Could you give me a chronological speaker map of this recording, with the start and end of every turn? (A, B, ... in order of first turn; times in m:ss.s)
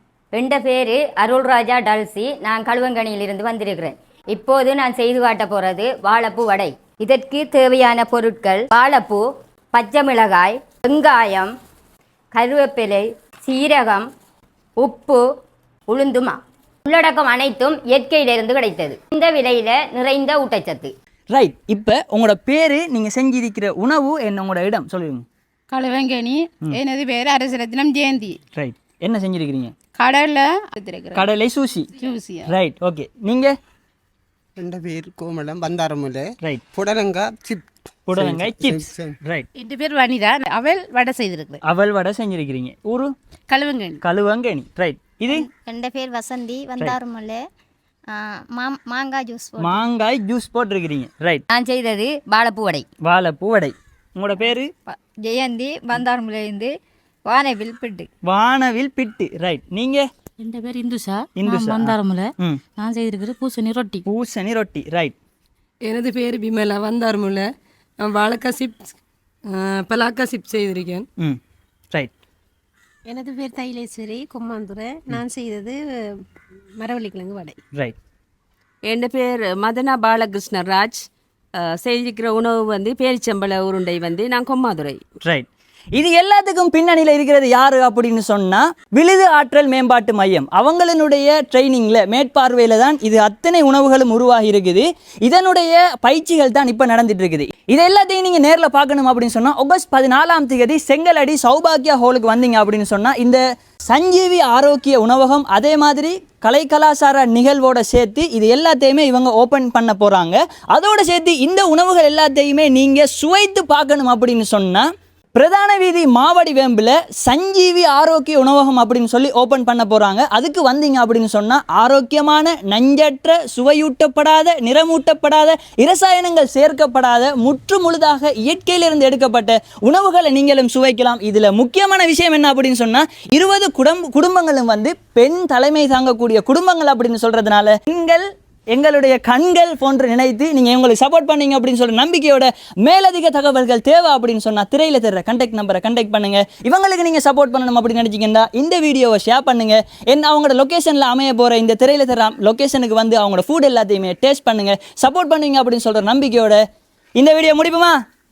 0:00.3-0:09.2 A
0:09.7-0:11.5 A
0:12.3-0:14.0 A
0:14.8-0:15.2 A
0:15.9-0:20.9 A
0:21.3-0:25.2 B
0:25.7-0:28.4 C
0:28.5-0:29.7 B
0:30.0-0:31.3 C
0:31.1-0:31.9 B
0:32.0-0:32.5 C
0:32.4-0:33.5 B
0:34.6-0:39.2 D
0:38.1-0:39.5 B
0:39.6-0:41.6 C
0:41.6-0:43.1 B
0:43.5-0:44.0 C
0:44.0-0:45.5 B
0:45.3-0:47.4 E
0:48.1-0:49.8 E
0:49.6-0:51.4 B
0:51.5-0:52.8 A
0:53.0-0:54.7 B
0:54.9-0:56.7 E
0:57.3-0:58.1 E
0:58.2-1:00.0 B
1:00.4-1:04.0 F
1:01.4-1:02.6 B
1:04.1-1:05.2 B
1:05.9-1:07.4 G
1:08.2-1:08.6 G
1:09.9-1:11.0 G
1:13.1-1:15.8 H
1:16.8-1:17.6 H
1:18.8-1:21.0 I
1:21.6-1:25.0 I
1:25.2-1:54.8 B
1:55.4-2:36.6 B
2:37.2-2:37.9 B